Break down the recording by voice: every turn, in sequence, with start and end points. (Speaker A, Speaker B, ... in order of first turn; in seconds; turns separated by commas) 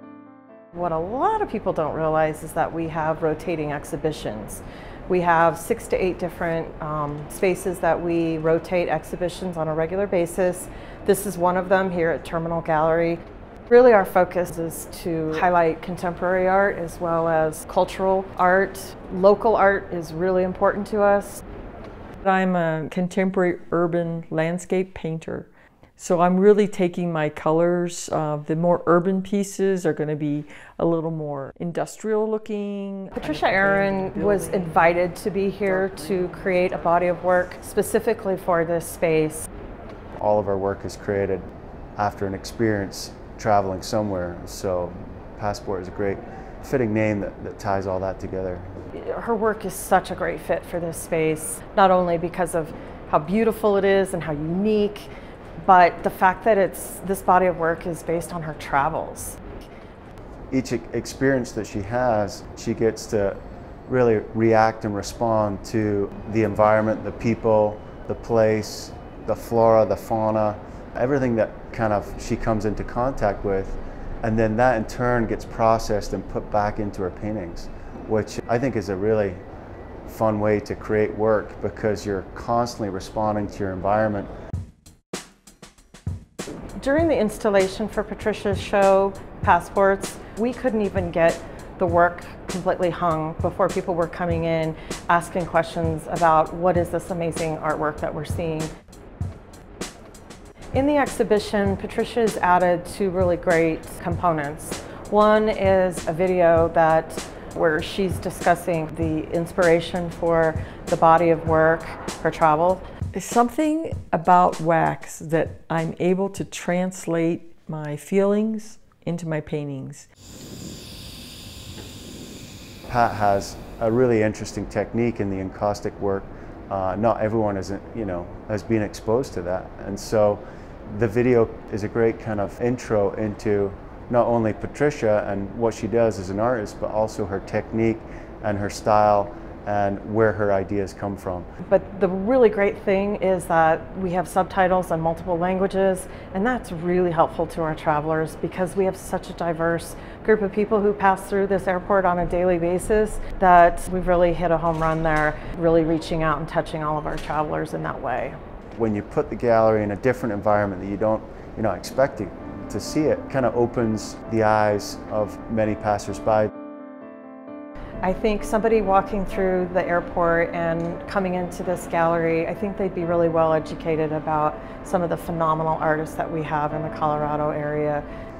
Speaker A: 0.7-21.4, Speaker B: 22.2-35.0, Speaker A: 33.1-39.5, Speaker B: 35.6-37.0, Speaker C: 40.1-48.7, Speaker A: 48.9-55.1, Speaker A: 55.6-59.4, Speaker C: 60.5-79.4, Speaker C: 80.0-84.3, Speaker A: 86.8-98.7, Speaker A: 100.7-112.9, Speaker B: 113.1-120.0, Speaker C: 122.9-141.5, Speaker A: 141.6-158.4, Speaker C: 158.8-166.5, Speaker A: 168.0-178.0